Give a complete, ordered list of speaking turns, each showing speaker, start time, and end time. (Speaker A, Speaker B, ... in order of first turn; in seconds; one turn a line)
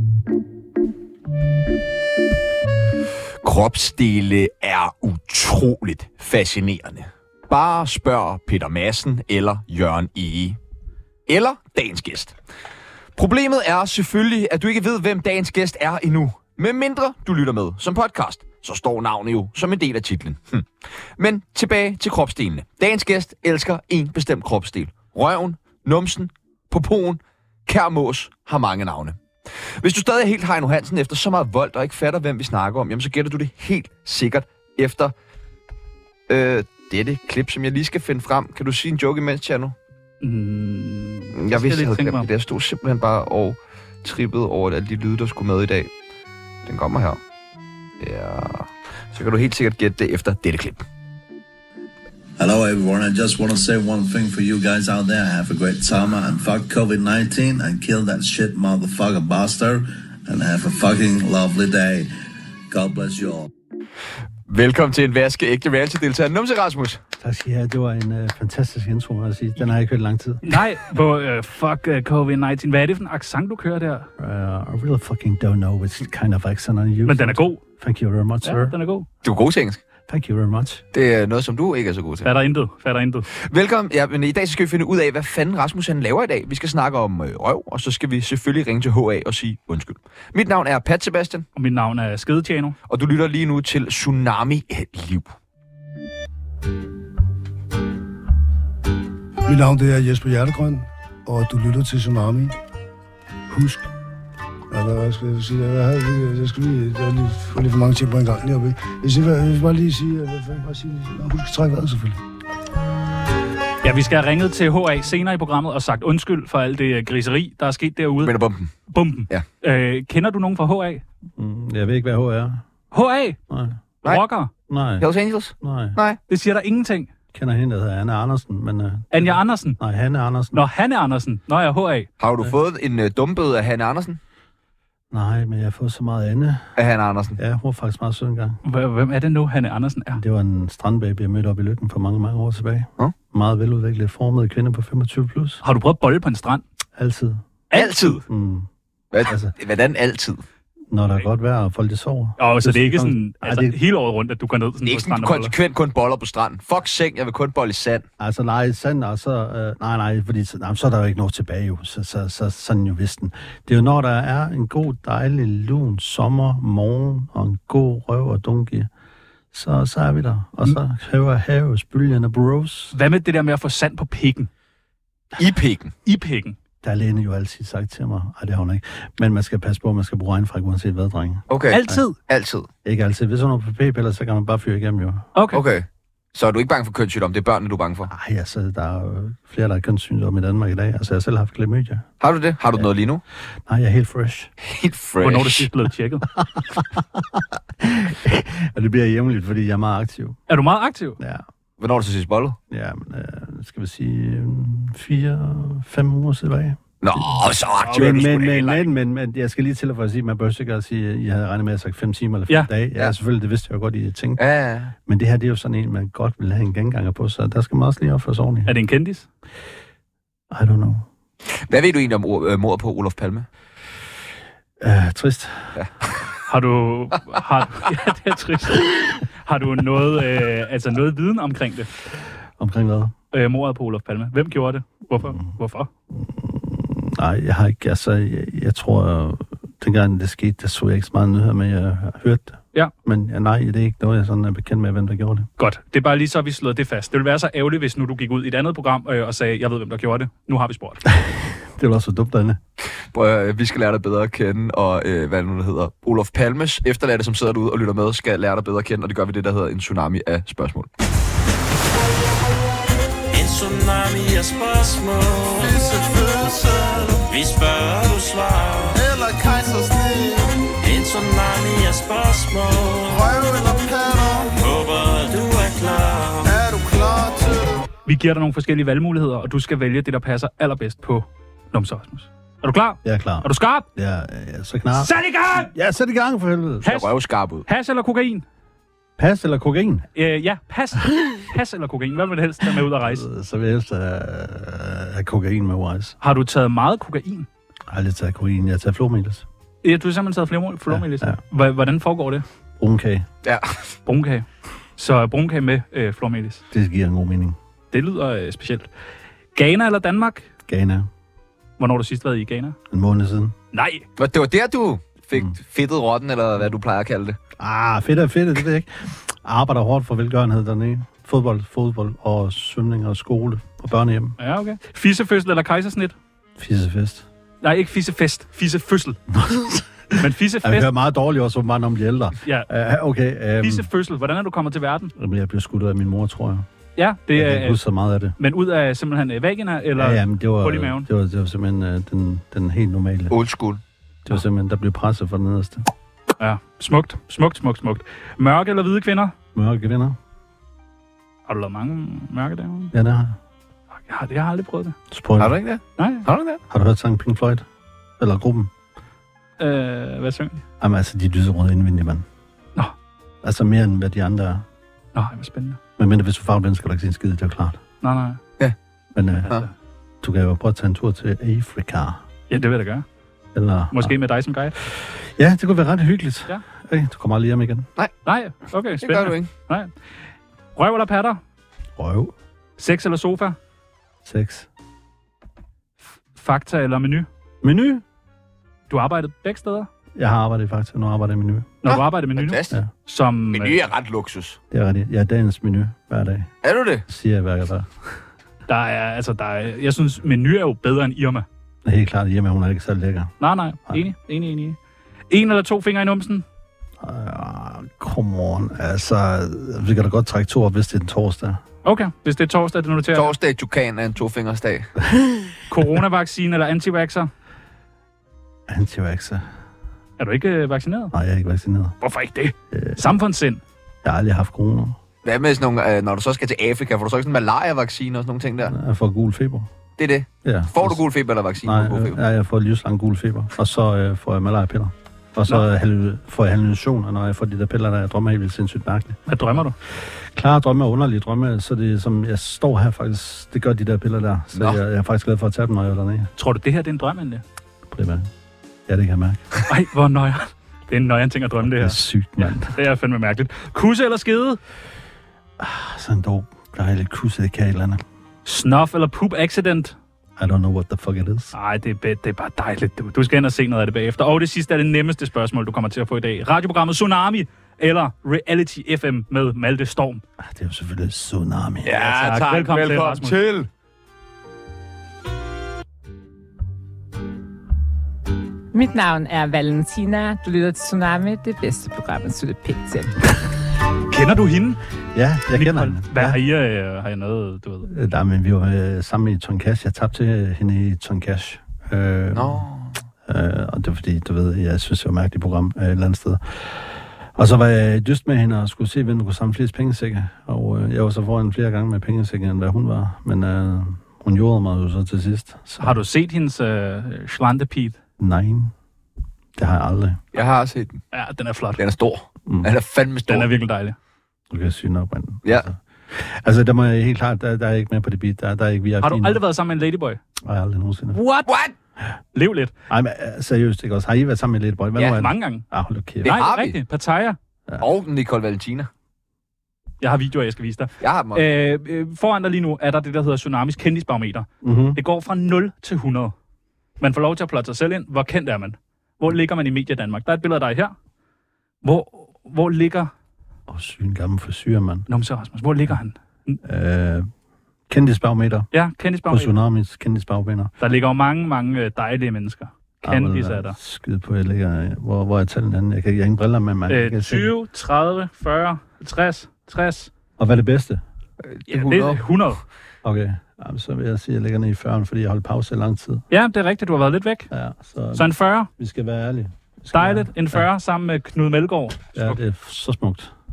Speaker A: 3.4-10.6
Speaker A: 11.3-12.3
Speaker A: 13.2-29.2
Speaker A: 29.8-35.1
Speaker A: 36.3-39.8
Speaker B: 40.2-42.3
Speaker A: 41.3-45.9
Speaker A: 46.6-47.2
Speaker A: 48.0-50.9
Speaker C: 52.4-62.1
Speaker C: 62.7-63.5
Speaker A: 64.5-67.0
Speaker D: 67.2-70.5
Speaker B: 70.4-74.1
Speaker D: 74.2-78.8
Speaker B: 77.0-77.6
Speaker B: 78.4-79.1
Speaker A: 79.2-79.8
Speaker D: 80.1-80.8
Speaker A: 80.9-82.3
Speaker B: 82.2-83.3
Speaker A: 83.4-91.5
Speaker B: 91.5-92.8
Speaker A: 92.9-95.3
Speaker E: 99.5-102.5
Speaker E: 103.5-103.9
Speaker E: 104.7-112.2
Speaker B: 113.8-118.3
Speaker A: 118.2-118.7
Speaker B: 118.9-121.0
Speaker D: 121.4-122.7
Speaker B: 122.9-123.4
Speaker D: 123.5-123.8
Speaker B: 124.0-124.5
Speaker D: 124.7-125.1
Speaker A: 125.0-126.2
Speaker D: 125.6-126.0
Speaker B: 126.3-127.1
Speaker D: 127.3-130.6
Speaker B: 129.1-129.8
Speaker B: 130.5-132.1
Speaker A: 132.2-134.2
Speaker D: 135.1-136.7
Speaker A: 136.8-137.4
Speaker D: 137.3-138.6
Speaker B: 138.6-140.2
Speaker D: 140.1-145.6
Speaker B: 145.6-146.6
Speaker D: 146.9-147.4
Speaker B: 147.7-148.2
Speaker A: 147.7-148.2
Speaker D: 148.2-148.7
Speaker A: 149.1-150.4
Speaker D: 149.2-149.5
Speaker D: 150.9-153.8
Speaker B: 152.4-155.5
Speaker A: 154.8-158.0
Speaker D: 158.2-168.9
Speaker D: 169.5-172.9
Speaker B: 172.9-174.5
Speaker A: 175.4-175.9
Speaker B: 176.0-176.6
Speaker D: 176.8-182.0
Speaker A: 181.5-182.7
Speaker B: 181.7-182.2
Speaker D: 182.8-185.3
Speaker B: 185.3-185.6
Speaker A: 185.5-188.1
Speaker D: 188.1-192.1
Speaker A: 192.2-193.2
Speaker D: 193.7-194.5
Speaker A: 194.6-195.7
Speaker B: 195.2-196.3
Speaker D: 196.4-200.4
Speaker B: 200.5-201.2
Speaker D: 201.2-201.4
Speaker A: 201.8-202.6
Speaker D: 202.7-206.9
Speaker A: 207.0-208.8
Speaker D: 207.9-214.4
Speaker A: 214.4-214.9
Speaker D: 215.0-218.7
Speaker B: 218.7-219.3
Speaker D: 220.5-221.1
Speaker A: 221.5-223.5
Speaker D: 224.8-225.8
Speaker B: 226.5-231.9
Speaker D: 232.6-233.1
Speaker B: 233.3-235.9
Speaker D: 236.1-245.5
Speaker B: 245.6-251.1
Speaker D: 251.1-252.6
Speaker A: 253.1-260.9
Speaker F: 263.3-265.8
Speaker G: 265.7-267.1
Speaker C: 266.8-267.1
Speaker F: 267.3-269.0
Speaker G: 268.9-270.6
Speaker F: 270.8-273.1
Speaker G: 273.1-274.5
Speaker F: 274.6-276.5
Speaker G: 276.4-277.7
Speaker B: 278.1-283.9
Speaker D: 283.0-286.9
Speaker B: 284.9-285.7
Speaker B: 286.8-287.1
Speaker A: 286.9-287.7
Speaker B: 287.7-288.4
Speaker D: 289.2-290.1
Speaker B: 290.1-293.2
Speaker D: 292.9-296.2
Speaker B: 296.2-297.5
Speaker D: 297.9-299.5
Speaker B: 299.8-302.4
Speaker D: 300.9-301.4
Speaker D: 302.8-303.3
Speaker A: 303.4-303.9
Speaker B: 304.1-304.5
Speaker B: 305.0-306.6
Speaker D: 306.7-307.6
Speaker B: 307.9-308.9
Speaker B: 309.6-310.5
Speaker D: 310.7-311.1
Speaker B: 311.8-312.8
Speaker D: 312.9-313.6
Speaker B: 313.7-314.0
Speaker A: 314.2-317.4
Speaker D: 317.6-324.4
Speaker B: 324.4-326.1
Speaker D: 326.6-327.3
Speaker B: 327.6-329.2
Speaker D: 329.3-333.9
Speaker B: 330.2-330.9
Speaker B: 332.4-332.7
Speaker B: 333.6-335.1
Speaker D: 335.2-336.7
Speaker B: 337.0-337.8
Speaker D: 337.3-338.4
Speaker B: 338.4-341.1
Speaker D: 340.0-343.4
Speaker A: 343.3-343.8
Speaker D: 344.3-345.9
Speaker B: 346.4-349.3
Speaker D: 349.6-350.2
Speaker B: 351.5-352.9
Speaker D: 352.9-353.4
Speaker B: 354.1-355.0
Speaker D: 355.1-355.5
Speaker A: 355.4-356.6
Speaker B: 356.0-356.3
Speaker D: 356.7-357.6
Speaker D: 358.2-358.7
Speaker B: 359.6-360.6
Speaker D: 360.8-362.3
Speaker D: 363.4-364.7
Speaker B: 365.1-365.8
Speaker D: 366.0-367.8
Speaker B: 368.0-368.4
Speaker D: 369.1-369.6
Speaker B: 369.4-369.7
Speaker D: 370.2-372.2
Speaker B: 372.5-373.1
Speaker D: 373.5-374.1
Speaker B: 373.9-374.8
Speaker D: 374.8-377.9
Speaker B: 378.3-379.9
Speaker A: 379.0-379.5
Speaker B: 380.8-381.4
Speaker D: 382.0-382.3
Speaker B: 382.8-383.6
Speaker D: 384.2-384.7
Speaker B: 386.3-387.3
Speaker D: 387.6-388.0
Speaker B: 388.9-389.9
Speaker D: 390.2-391.7
Speaker B: 391.8-393.8
Speaker A: 391.9-392.8
Speaker A: 393.5-394.6
Speaker D: 394.7-396.5
Speaker A: 396.6-397.0
Speaker D: 397.1-397.9
Speaker B: 398.7-401.5
Speaker D: 401.9-403.3
Speaker B: 403.4-404.8
Speaker B: 405.3-406.4
Speaker D: 407.0-411.6
Speaker B: 411.8-413.3
Speaker A: 413.1-414.9
Speaker B: 415.7-417.3
Speaker D: 418.7-419.5
Speaker B: 420.2-421.1
Speaker D: 421.1-422.0
Speaker B: 422.0-423.6
Speaker D: 422.7-423.1
Speaker D: 424.0-425.0
Speaker A: 425.2-428.7
Speaker D: 428.6-429.7
Speaker A: 430.0-432.2
Speaker D: 430.4-431.0
Speaker D: 431.6-439.2
Speaker B: 439.3-439.8
Speaker D: 439.9-446.3
Speaker B: 446.4-447.4
Speaker D: 447.9-448.3
Speaker D: 448.9-449.5
Speaker B: 449.7-454.6
Speaker D: 451.6-452.7
Speaker D: 455.6-458.0
Speaker B: 458.4-459.9
Speaker D: 460.4-461.5
Speaker B: 461.5-470.2
Speaker D: 470.4-472.1
Speaker A: 471.9-473.7
Speaker B: 472.1-473.4
Speaker H: 478.7-483.1
Speaker B: 484.1-484.8
Speaker D: 485.1-486.4
Speaker B: 485.5-487.9
Speaker D: 487.9-492.7
Speaker A: 492.3-493.0
Speaker D: 493.3-506.0
Speaker B: 505.8-508.0
Speaker D: 508.2-508.7
Speaker D: 509.6-510.2
Speaker A: 510.3-511.0
Speaker B: 511.1-511.8
Speaker A: 511.8-513.5
Speaker B: 513.3-514.0
Speaker D: 514.5-519.4
Speaker B: 519.0-520.2
Speaker D: 520.4-521.2
Speaker B: 521.1-521.5
Speaker A: 521.5-521.7
Speaker B: 522.3-522.7
Speaker D: 522.9-526.5
Speaker B: 525.0-525.6
Speaker B: 526.2-527.4
Speaker A: 526.3-526.8
Speaker A: 527.8-528.9
Speaker B: 530.0-536.3
Speaker A: 531.0-531.5
Speaker D: 534.6-535.0
Speaker B: 537.0-540.9
Speaker B: 541.8-543.1
Speaker D: 543.7-545.0
Speaker B: 545.1-546.6
Speaker D: 546.6-547.3
Speaker D: 547.9-548.7
Speaker B: 548.7-549.5
Speaker D: 549.3-550.7
Speaker B: 550.8-553.8
Speaker D: 553.0-557.5
Speaker B: 556.9-560.1
Speaker D: 560.4-561.0
Speaker A: 561.4-562.2
Speaker B: 561.7-562.6
Speaker D: 563.0-566.2
Speaker B: 566.3-567.5
Speaker D: 567.5-570.6
Speaker B: 568.1-568.7
Speaker B: 569.9-572.4
Speaker D: 572.1-573.3